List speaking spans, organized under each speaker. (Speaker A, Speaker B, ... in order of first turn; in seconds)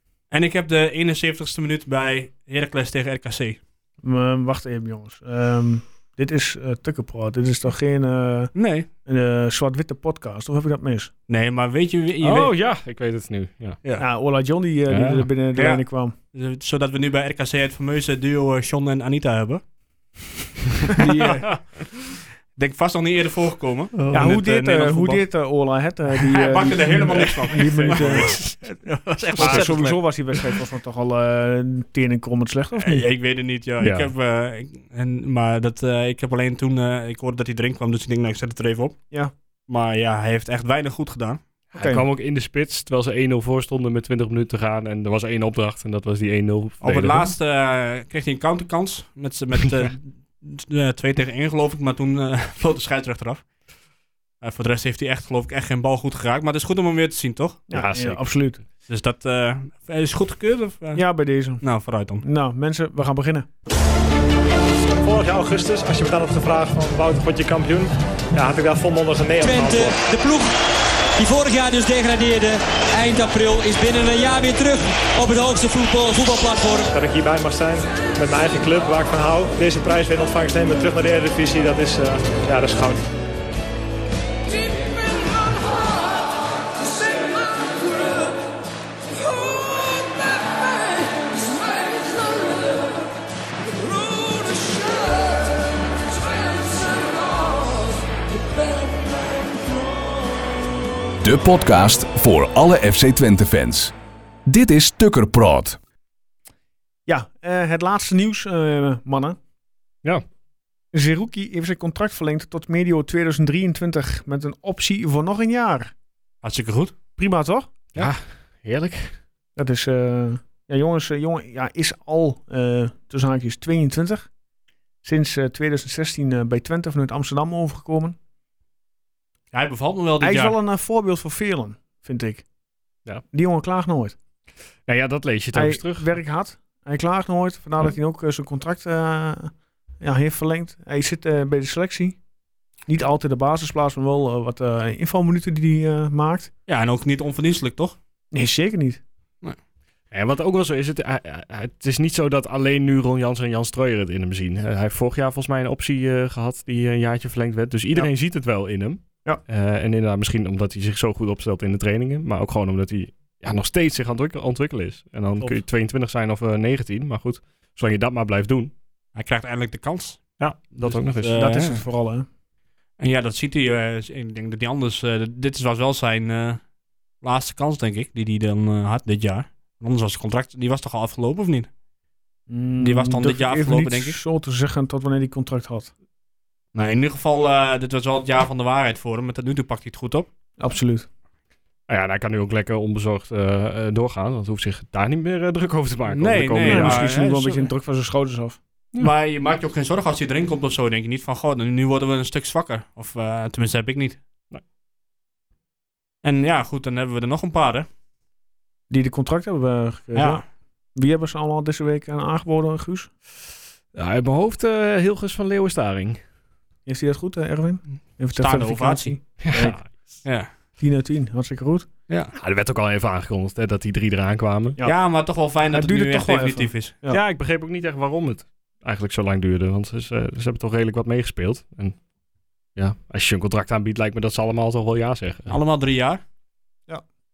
Speaker A: 0.3-3.6, 8.6-8.9, 11.3-12.5, 15.6-15.8, 16.3-19.6, 20.9-22.0, 22.6-25.2, 26.1-30.5, 32.8-39.0, 39.7-41.4, 46.8-53.4, 54.4-57.6, 58.9-61.0, 61.6-62.2, 116.4-116.9, 129.5-130.6, 146.7-148.0, 169.2-170.2, 170.8-171.8, 173.0-176.6, 177.2-181.7, 182.8-184.2, 186.8-190.3, 196.1-197.7, 199.0-204.2, 206.2-207.9, 210.2-210.4, 218.4-219.1, 220.2-220.5, 224.8-227.0, 235.5-236.2
Speaker B: 4.0-8.5, 9.1-11.1, 14.0-16.1, 24.1-28.4, 29.4-33.1, 41.7-42.0, 57.7-58.6, 61.0-61.6, 62.2-63.5, 107.1-109.4, 110.9-115.9, 117.2-118.1, 119.6-124.3, 125.0-128.2, 130.2-132.4, 133.3-134.2, 135.5-142.2, 142.9-146.5, 148.3-149.0, 171.4-172.3, 182.5-185.9, 190.6-191.1, 196.7-198.6, 208.9-210.4, 210.9-213.1, 216.9-219.8, 220.8-221.9, 225.7-227.2
Speaker C: 12.2-13.8, 14.9-15.3, 24.0-24.3, 27.7-28.5, 29.3-29.8, 33.8-34.1, 41.7-47.3, 57.7-58.2, 118.0-119.2, 134.9-136.2, 150.1-168.7, 170.4-171.4, 191.9-197.1, 213.9-216.2, 219.4-220.1, 222.3-224.8, 227.1-232.0, 232.8-235.6
Speaker D: 65.0-70.0, 76.9-83.1
Speaker E: 69.4-70.5, 71.2-76.9
Speaker F: 101.2-103.9, 104.5-105.8